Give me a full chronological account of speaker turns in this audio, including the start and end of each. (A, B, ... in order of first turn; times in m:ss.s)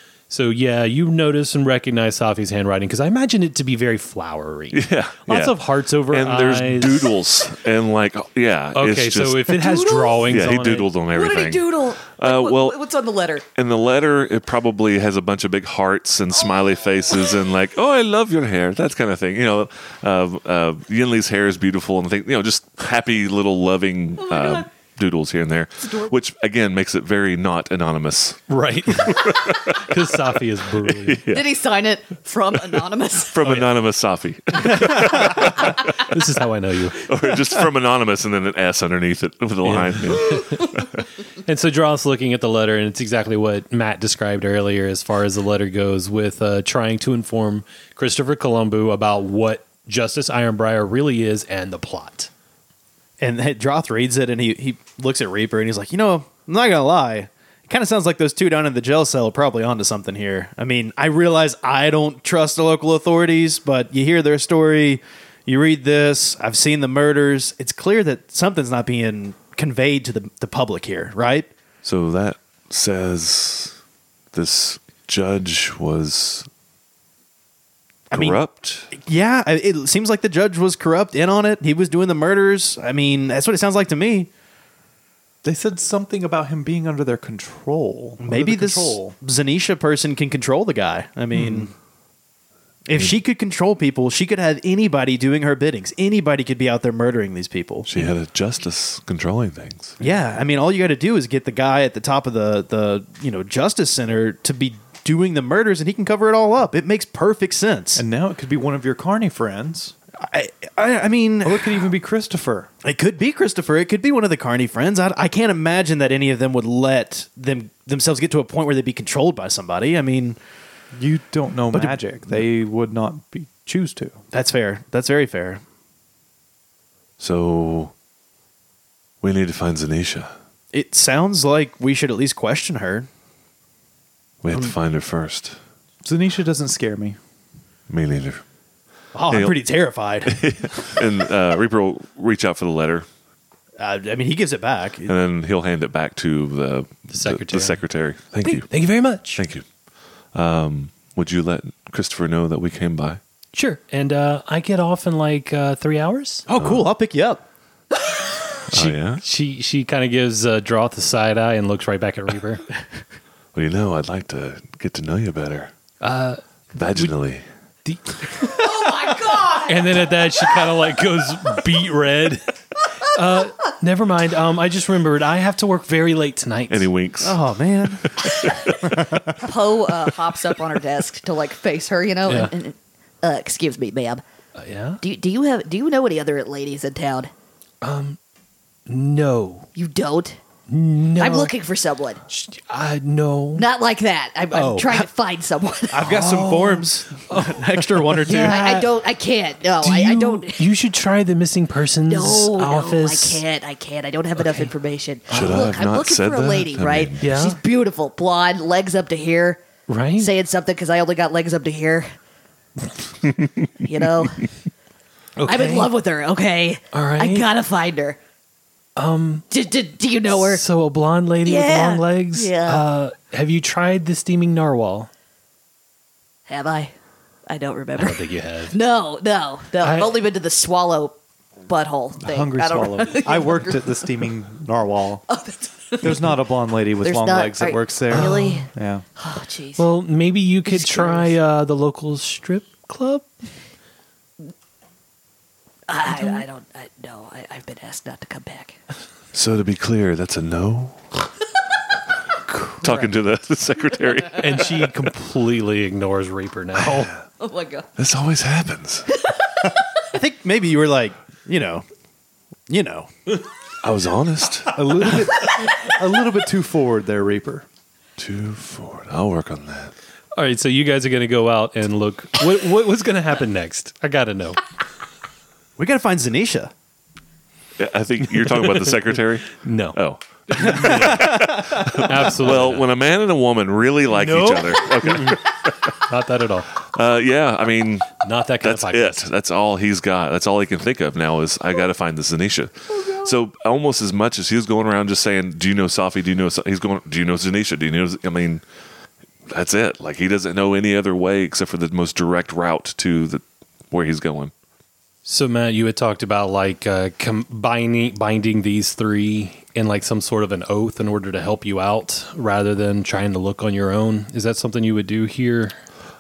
0:00.3-0:07.1 A
0:04.7-0:09.6 B
0:08.7-0:10.9 A
0:09.6-0:10.3 C
0:10.2-0:12.8 B
0:11.1-0:13.4 C
0:13.6-0:30.1 B
0:24.2-0:24.6 C
0:25.8-0:26.1 C
0:28.5-0:31.2 A
0:31.0-0:31.5 B
0:31.3-0:33.6 C
0:33.3-0:35.9 B
0:34.6-0:36.0 C
0:35.9-0:37.0 A
0:37.0-0:41.0 B
0:39.6-0:40.7 A
0:41.4-0:52.3 A
0:53.2-1:11.5 D
1:11.8-1:13.8 B
1:14.3-1:16.5 B
1:18.1-1:18.4 D
1:18.1-1:18.9 B
1:18.9-1:24.3 D
1:25.4-1:29.2 E
1:28.2-1:31.7 D
1:32.8-1:38.1 D
1:37.9-1:40.0 B
1:40.0-1:48.0 D
1:48.0-1:49.9 E
1:50.2-1:51.8 D
1:51.4-1:52.7 E
1:52.8-2:00.4 D
2:00.9-2:04.2 E
2:01.7-2:02.4 D
2:04.3-2:05.6 D
2:07.2-2:07.9 B
2:09.2-2:10.3 B
2:10.7-2:13.1 D
2:14.4-2:15.6 B
2:16.0-2:17.2 E
2:17.9-2:18.4 B
2:19.1-2:21.0 D
2:19.3-2:19.6 B
2:20.2-2:23.0 B
2:23.8-2:25.1 D
2:25.0-2:28.8 B
2:27.1-2:27.8 A
2:28.4-2:29.4 A
2:29.3-2:29.6 B
2:30.3-2:33.2 B
2:33.5-2:36.4 A
2:36.5-2:37.4 D
2:36.6-2:36.9 B
2:38.7-2:42.6 A
2:38.7-2:39.2 B
2:43.5-2:45.7 B
2:46.0-2:47.1 A
2:46.7-2:47.4 B
2:47.8-2:48.9 A
2:48.6-2:49.7 C
2:49.6-2:56.9 A
2:56.7-2:58.5 B
2:57.2-2:58.3 D
2:58.9-2:59.3 E
2:59.3-3:02.5 C
3:02.2-3:02.5 A
3:03.2-3:04.2 F
3:04.6-3:05.0 A
3:05.0-3:07.3 F
3:07.8-3:08.2 A
3:08.9-3:09.7 A
3:09.8-3:10.4 F
3:10.7-3:11.5 A
3:11.2-3:12.2 F
3:12.3-3:13.6 A
3:13.6-3:16.2 F
3:14.5-3:15.0 D
3:15.9-3:18.6 D
3:16.0-3:18.9 A
3:18.3-3:20.7 F
3:19.8-3:23.4 A
3:22.1-3:29.6 F
3:24.4-3:24.7 A
3:25.3-3:25.7 A
3:25.3-3:27.3 B
3:27.2-3:27.6 A
3:29.9-3:30.3 A
3:30.2-3:32.1 F
3:33.8-3:34.5 F
3:35.4-3:35.9 A
3:35.4-3:38.2 F
3:36.9-3:37.4 A
3:39.0-3:39.5 A
3:39.5-3:40.6 F
3:40.3-3:45.1 A
3:41.4-3:42.8 F
3:46.5-3:46.9 F
3:47.5-3:53.5 F
3:48.0-3:48.8 A
3:49.8-3:50.1 A
3:52.2-3:55.2 E
3:52.6-3:53.8 C
3:56.0-3:59.0 E
3:57.0-3:59.8 F
3:58.1-3:58.6 A
3:59.8-4:03.3 A
4:00.7-4:01.3 F
4:05.9-4:08.8 F
4:09.3-4:11.1 B
4:12.8-4:14.8 B
4:14.4-4:17.1 A
4:16.8-4:17.2 B
4:17.4-4:17.9 C
4:18.0-4:19.1 B
4:20.1-4:21.8 D
4:22.7-4:23.1 D
4:23.8-4:24.8 B
4:24.7-4:27.6 E
4:28.2-4:29.9 B
4:30.4-4:34.6 A
4:35.8-4:36.7 D
4:37.8-4:46.0 B
4:38.6-4:38.9 A
4:39.5-4:40.0 A
4:40.5-4:42.9 A
4:40.6-4:42.0 D
4:44.2-4:46.7 A
4:46.8-4:58.6 B
4:48.2-4:49.2 A
4:59.5-5:04.5 B
5:05.2-5:15.8 A